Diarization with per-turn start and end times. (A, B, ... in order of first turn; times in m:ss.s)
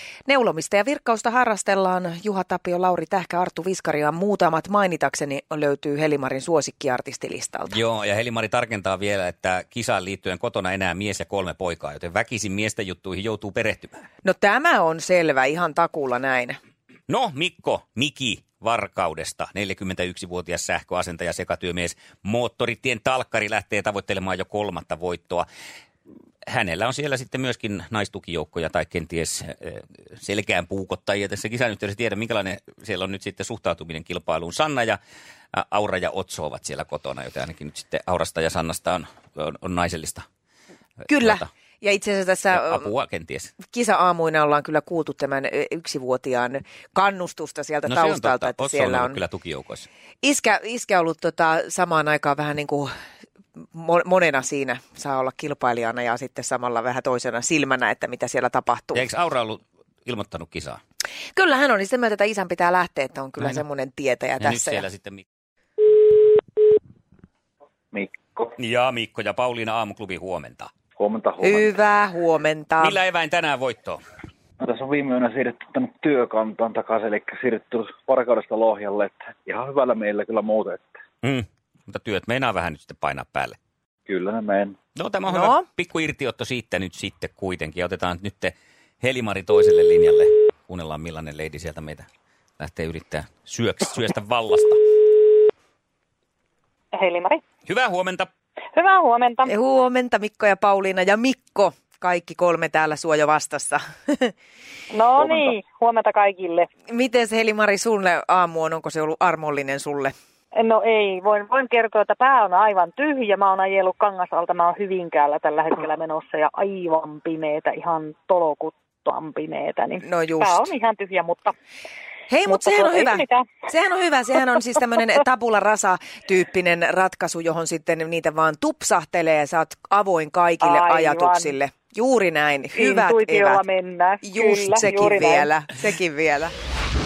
0:00.3-0:07.8 A
0:07.7-0:14.0 B
0:14.2-0:16.6 A
0:17.1-0:25.5 B
0:26.4-0:35.0 B
0:35.5-0:40.3 B
0:41.0-0:41.5 B
0:41.1-0:42.9 A
0:42.5-0:43.5 B
0:43.6-0:49.2 A
0:47.9-0:49.9 B
0:50.2-0:52.9 A
0:53.7-0:59.0 A
0:58.9-1:00.8 B
1:01.4-1:04.8 A
1:04.4-1:05.2 B
1:07.9-1:08.6 C
1:08.6-1:10.7 B
1:11.0-1:11.8 C
1:11.4-1:13.0 A
1:12.8-1:14.0 B
1:14.6-1:20.9 C
1:21.2-1:23.6 B
1:24.1-1:24.8 C
1:25.0-1:32.1 B
1:25.3-1:25.7 A
1:32.6-1:34.8 B
1:36.9-1:37.4 D
1:37.7-1:38.3 B
1:38.7-1:39.5 D
1:39.5-1:44.3 A
1:44.9-1:46.7 D
1:46.9-1:50.2 A
1:50.5-2:01.6 D
2:00.0-2:00.7 A
2:02.3-2:13.6 A
2:02.5-2:03.5 D
2:10.6-2:11.6 D
2:12.7-2:15.5 D
2:14.2-2:16.5 A